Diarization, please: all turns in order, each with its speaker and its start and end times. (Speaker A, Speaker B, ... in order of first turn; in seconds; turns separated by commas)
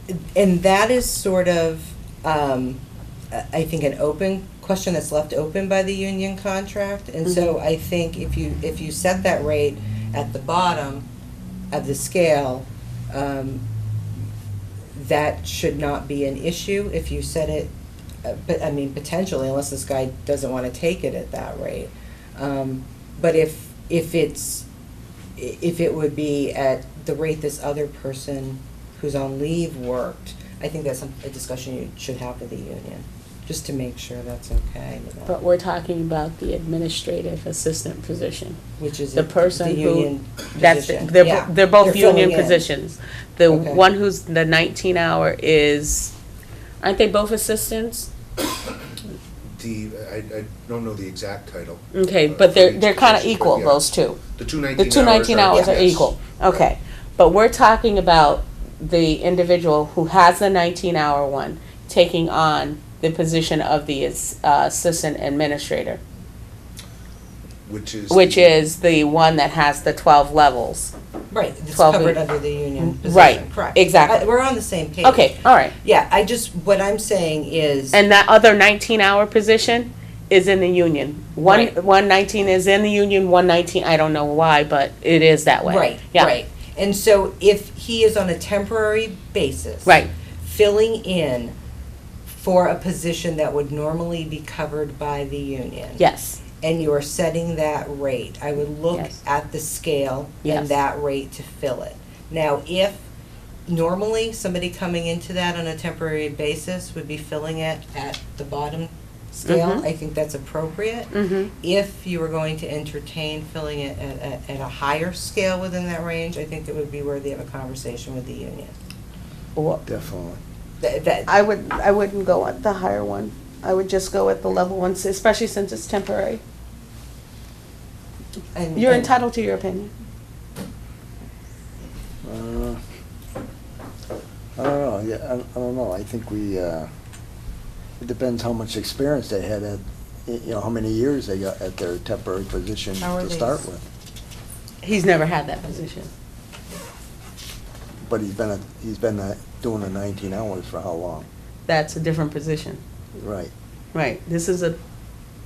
Speaker A: 0.1-2.8, Speaker A: 3.3-11.1, Speaker B: 7.2-7.6, Speaker A: 11.7-13.6, Speaker A: 14.9-17.7, Speaker A: 18.2-24.6, Speaker A: 25.4-35.4, Speaker B: 35.2-38.6, Speaker A: 38.8-42.6, Speaker B: 39.1-46.1, Speaker A: 43.5-43.8, Speaker B: 46.8-48.1, Speaker C: 49.5-56.2, Speaker B: 51.9-54.2, Speaker B: 54.8-66.0, Speaker C: 67.6-68.5, Speaker B: 68.1-70.9, Speaker A: 71.3-78.0, Speaker B: 71.7-72.2, Speaker B: 72.8-74.2, Speaker B: 75.0-75.7, Speaker B: 77.9-86.3, Speaker A: 81.4-81.7, Speaker A: 85.6-91.5, Speaker B: 89.8-90.1, Speaker A: 92.3-96.0, Speaker B: 96.0-96.4, Speaker A: 96.6-103.0, Speaker B: 100.4-100.7, Speaker A: 103.7-118.7, Speaker B: 109.4-109.8, Speaker B: 111.1-111.5, Speaker B: 119.5-119.8, Speaker D: 119.8-120.4, Speaker A: 120.8-121.3, Speaker B: 121.3-126.4, Speaker A: 128.5-129.1, Speaker B: 128.7-129.9, Speaker D: 132.2-132.8, Speaker D: 134.6-136.9, Speaker D: 138.0-143.8, Speaker A: 143.0-143.6, Speaker B: 144.8-146.1, Speaker D: 148.0-151.3, Speaker B: 151.7-152.8, Speaker D: 153.2-153.5, Speaker B: 153.9-154.8